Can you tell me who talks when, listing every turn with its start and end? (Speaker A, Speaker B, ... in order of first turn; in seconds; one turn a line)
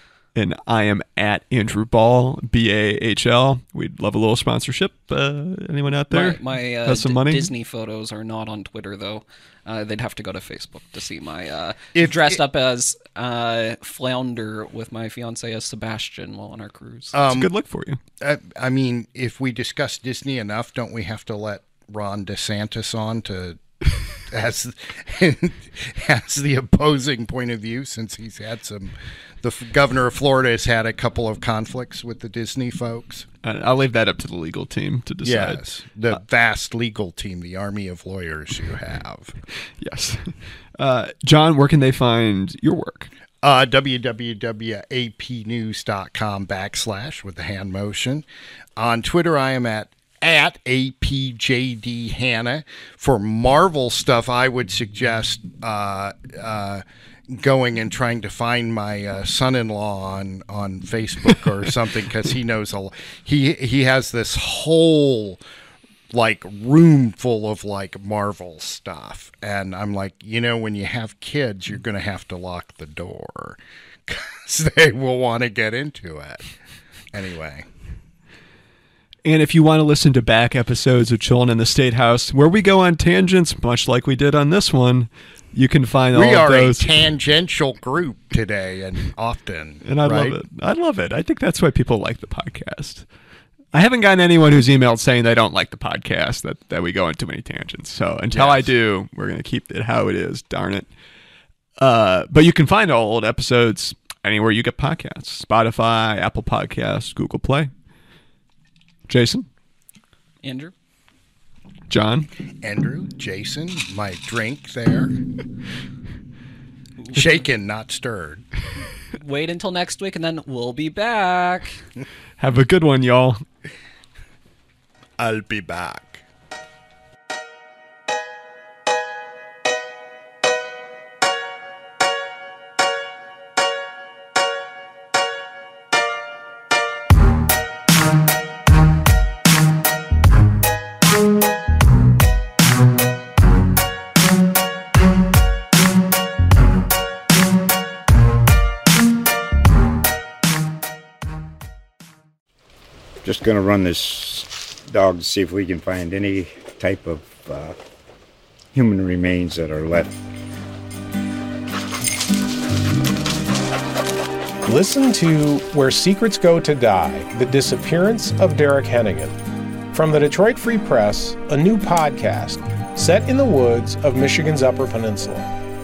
Speaker A: 0.3-7.5
Speaker B: 6.1-17.2
Speaker C: 11.9-12.4
Speaker C: 17.1-17.5
Speaker A: 17.3-18.0
Speaker C: 18.2-33.3
Speaker A: 33.4-35.6
Speaker C: 35.2-39.4
Speaker A: 39.8-43.1
Speaker C: 43.4-48.3
Speaker C: 48.8-65.4
Speaker C: 66.1-76.5
Speaker C: 77.1-77.7
Speaker A: 79.3-86.9
Speaker C: 86.1-90.4
Speaker A: 89.8-93.1
Speaker A: 93.7-100.9
Speaker C: 98.3-98.7
Speaker A: 101.8-107.7
Speaker A: 109.1-109.5
Speaker B: 110.4-110.7
Speaker A: 111.9-112.3
Speaker C: 112.6-115.2
Speaker C: 117.1-118.5
Speaker B: 119.1-121.8
Speaker A: 122.4-123.4
Speaker C: 125.2-126.2
Speaker D: 153.2-157.8
Speaker D: 158.7-160.2
Speaker E: 164.7-169.3
Speaker E: 169.9-175.5